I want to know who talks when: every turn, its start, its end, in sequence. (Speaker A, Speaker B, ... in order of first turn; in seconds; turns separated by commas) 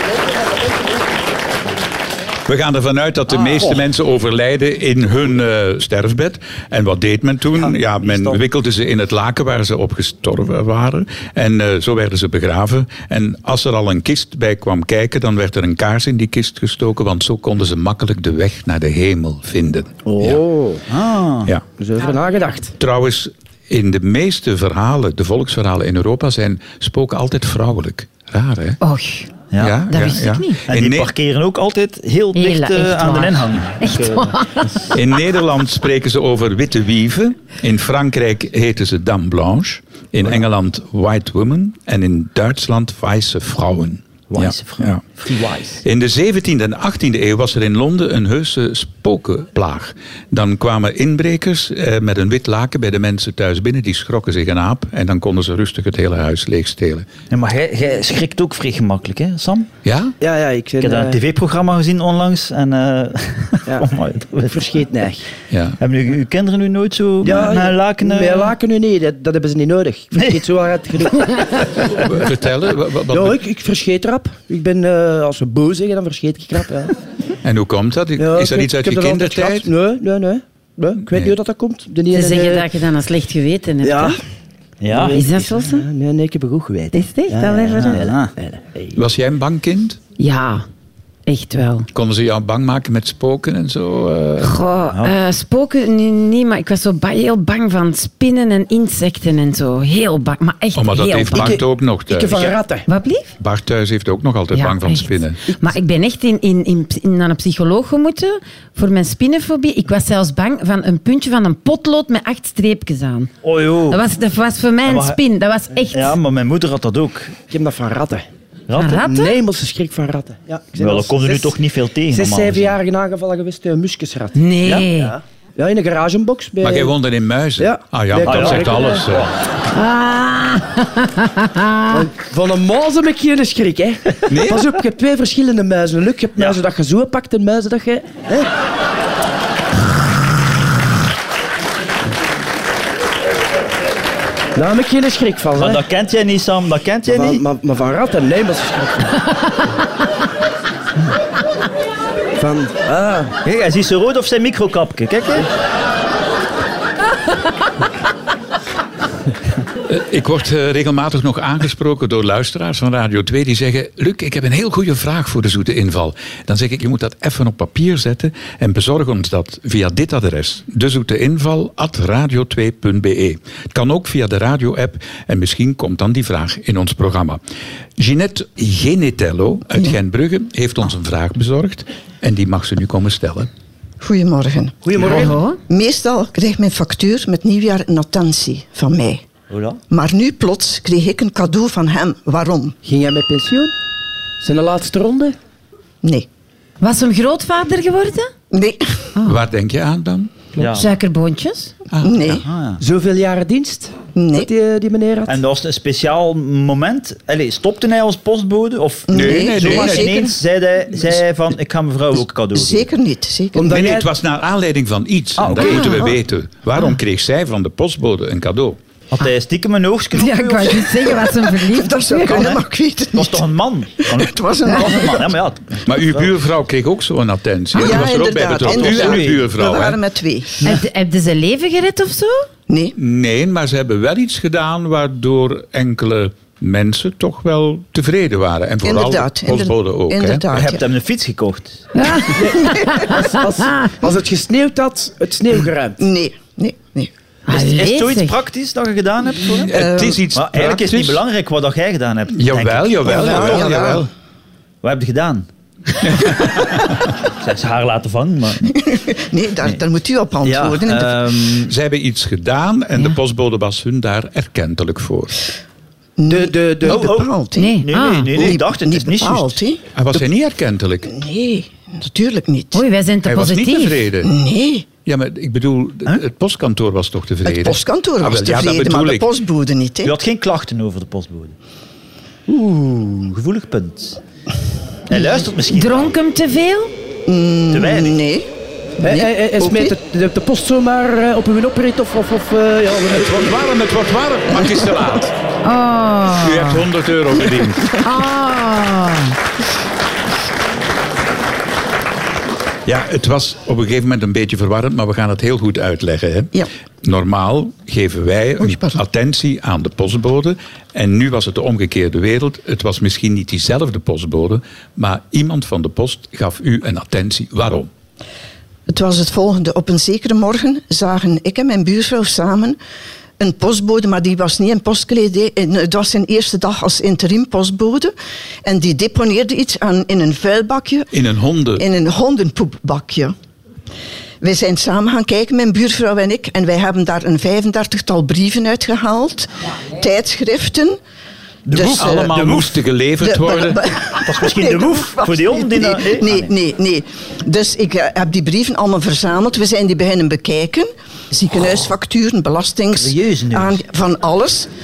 Speaker A: 2.5-20.4, Speaker B: 3.3-3.8, Speaker C: 20.1-20.8, Speaker B: 20.9-21.5, Speaker C: 21.8-22.7, Speaker A: 22.8-28.8, Speaker D: 28.8-29.3, Speaker B: 29.5-29.8, Speaker A: 29.6-31.1, Speaker D: 29.9-30.6, Speaker B: 30.7-34.9, Speaker D: 32.3-34.9, Speaker A: 34.9-45.0, Speaker B: 44.3-45.8, Speaker A: 45.8-57.0, Speaker B: 57.3-59.7, Speaker A: 59.8-60.1, Speaker C: 60.2-61.2, Speaker B: 60.8-64.6, Speaker C: 64.5-65.3, Speaker A: 65.5-65.8, Speaker B: 65.8-68.5, Speaker C: 67.2-72.0, Speaker B: 70.1-70.4, Speaker A: 71.9-73.4, Speaker C: 73.1-76.9, Speaker A: 77.4-79.7, Speaker C: 78.2-82.7, Speaker D: 82.1-84.2, Speaker C: 83.8-84.2, Speaker B: 84.8-85.2, Speaker C: 84.9-89.0, Speaker D: 85.1-85.9, Speaker D: 86.9-88.1, Speaker B: 87.7-88.3, Speaker A: 88.9-90.0, Speaker D: 90.2-90.7, Speaker D: 91.3-91.9, Speaker A: 91.9-94.6, Speaker D: 94.4-101.6, Speaker B: 94.9-95.2, Speaker A: 100.7-102.5, Speaker C: 101.3-102.9, Speaker D: 102.9-103.3, Speaker A: 103.4-105.4, Speaker D: 104.5-113.3, Speaker B: 113.4-114.0, Speaker D: 113.9-116.2, Speaker B: 114.8-115.2, Speaker B: 115.9-117.4, Speaker C: 117.5-118.3, Speaker B: 118.7-119.0, Speaker D: 118.8-119.3, Speaker C: 118.9-121.5, Speaker B: 120.8-122.7, Speaker C: 122.1-126.9, Speaker D: 124.3-125.2, Speaker A: 126.6-129.3, Speaker C: 127.6-129.1, Speaker B: 128.2-129.2, Speaker D: 129.7-132.0, Speaker C: 131.9-138.5, Speaker A: 134.3-134.7, Speaker C: 144.5-145.8, Speaker B: 145.6-147.4, Speaker C: 147.1-149.2, Speaker C: 152.4-153.3, Speaker B: 153.4-155.5, Speaker A: 159.9-177.4, Speaker A: 178.0-183.5, Speaker E: 184.0-189.2, Speaker C: 184.8-185.3, Speaker D: 185.0-185.6, Speaker B: 189.5-189.8, Speaker E: 189.9-192.8, Speaker C: 192.8-193.7, Speaker C: 194.4-195.3, Speaker D: 196.8-198.3, Speaker E: 198.5-199.1, Speaker D: 199.1-199.4, Speaker A: 199.2-200.3, Speaker B: 200.6-200.9, Speaker D: 200.6-201.7, Speaker A: 201.9-202.4, Speaker E: 202.0-202.4, Speaker B: 202.4-202.8, Speaker C: 202.8-205.4, Speaker E: 204.2-204.5, Speaker B: 205.3-212.9, Speaker E: 209.1-210.3, Speaker A: 209.1-210.2, Speaker E: 212.5-213.8, Speaker C: 213.5-214.1, Speaker A: 213.7-218.8, Speaker B: 215.4-216.2, Speaker D: 215.6-216.1, Speaker B: 219.1-221.1, Speaker D: 220.1-222.6, Speaker E: 221.1-223.4, Speaker B: 222.3-222.6, Speaker B: 223.1-226.3, Speaker E: 224.0-225.3, Speaker A: 225.8-230.0, Speaker E: 227.8-230.6, Speaker B: 228.6-229.5, Speaker D: 230.6-232.4, Speaker E: 232.7-232.9, Speaker A: 233.0-240.6, Speaker E: 238.8-240.8, Speaker B: 240.5-241.9, Speaker D: 241.9-243.9, Speaker C: 242.3-246.0, Speaker E: 246.0-247.1, Speaker D: 247.5-248.3, Speaker B: 247.5-249.8, Speaker A: 249.7-251.2, Speaker E: 249.7-250.2, Speaker B: 250.3-254.0, Speaker A: 252.3-254.1, Speaker E: 253.0-254.1, Speaker B: 254.8-255.5, Speaker A: 256.0-256.8, Speaker B: 257.3-258.7, Speaker E: 258.7-261.3, Speaker B: 260.4-261.7, Speaker A: 261.7-265.4, Speaker E: 266.2-269.8, Speaker C: 266.3-267.1, Speaker B: 266.9-269.6, Speaker D: 267.6-268.3, Speaker A: 269.9-271.1, Speaker E: 271.1-272.8, Speaker D: 272.7-274.1, Speaker A: 273.2-274.3, Speaker E: 274.2-274.9, Speaker A: 275.1-279.2, Speaker E: 277.4-280.1, Speaker B: 280.0-281.5, Speaker C: 282.5-283.2, Speaker B: 283.1-284.2, Speaker B: 285.1-286.1, Speaker D: 285.7-286.9, Speaker E: 287.3-288.5, Speaker B: 287.7-288.2, Speaker E: 289.0-289.9, Speaker C: 289.0-293.6, Speaker A: 293.1-295.3, Speaker D: 295.6-296.8, Speaker A: 296.3-298.0, Speaker D: 298.0-299.3, Speaker A: 302.9-317.9, Speaker E: 308.6-309.0, Speaker E: 318.9-322.8, Speaker E: 323.4-328.1, Speaker E: 328.6-331.1, Speaker A: 331.1-331.8, Speaker E: 331.8-333.3, Speaker E: 334.4-341.0, Speaker B: 341.6-342.7, Speaker E: 341.7-342.6, Speaker A: 341.9-343.8, Speaker E: 343.2-354.7, Speaker B: 344.2-346.5, Speaker B: 352.9-353.8